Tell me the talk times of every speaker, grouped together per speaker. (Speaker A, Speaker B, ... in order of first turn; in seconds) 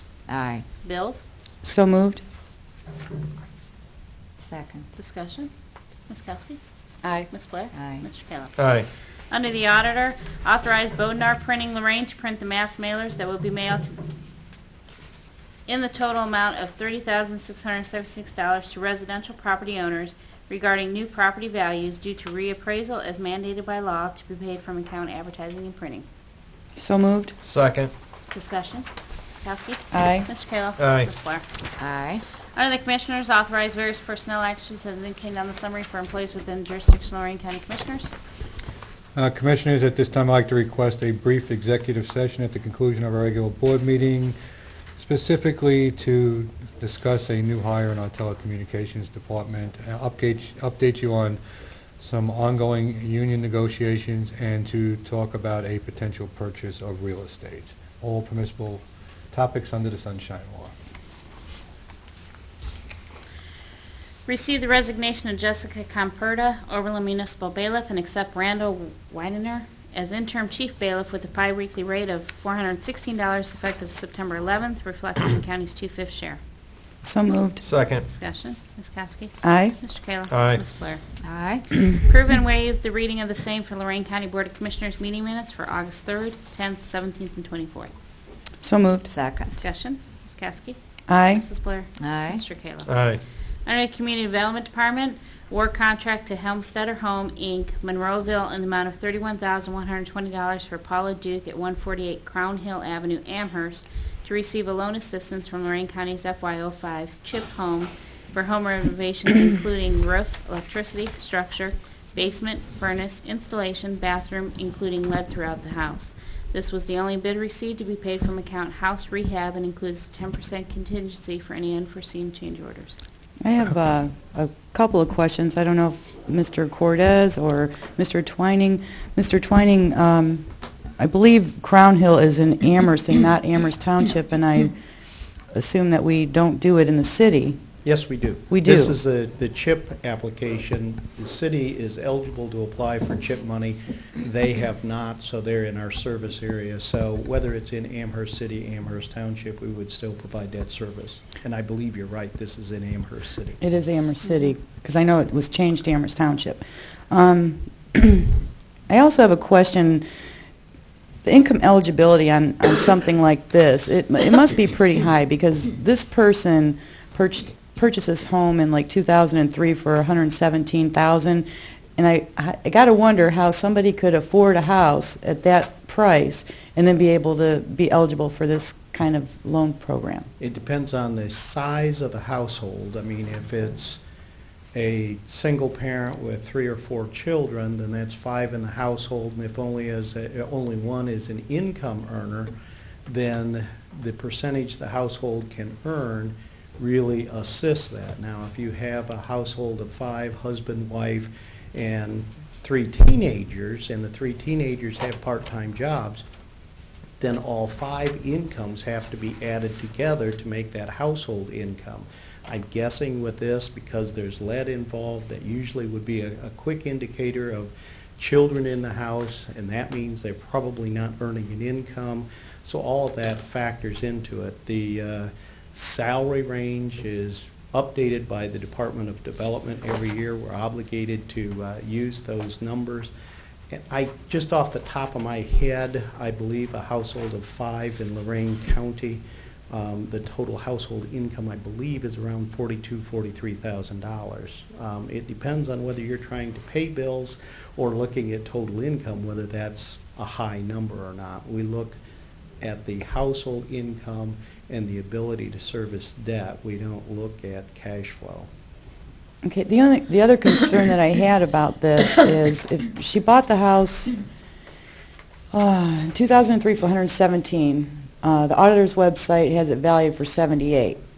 Speaker A: 0.3-0.7, 4.4-4.9, 7.7-8.1, 31.8-32.2, 81.2-81.7, 89.0-89.6, 92.0-92.4
Speaker B: 0.8-1.3, 4.9-5.5, 6.1-6.6, 7.3-8.5, 9.3-14.0, 15.7-26.0, 28.3-31.4, 32.5-38.1, 64.3-76.4, 78.0-81.0, 81.9-87.9, 89.5-90.8, 91.3-92.9, 93.7-123.0
Speaker C: 1.6-2.2, 7.0-7.3, 26.8-27.3, 29.9-30.3, 77.0-77.6, 79.4-79.8, 88.6-89.1, 91.1-91.4, 123.4-130.5, 131.0-134.7, 135.5-137.6, 138.5-139.0, 153.6-160.0, 161.2-180.3, 259.4-264.1, 265.5-271.0
Speaker D: 8.6-8.9, 27.4-27.9, 30.8-31.1, 77.6-78.1, 80.3-80.6, 92.8-93.2
Speaker E: 39.1-44.4, 45.0-51.4, 52.0-60.7
Speaker F: 137.8-153.6, 180.4-184.0, 184.7-192.5, 193.1-206.2, 207.2-233.1, 233.7-252.0, 252.6-258.5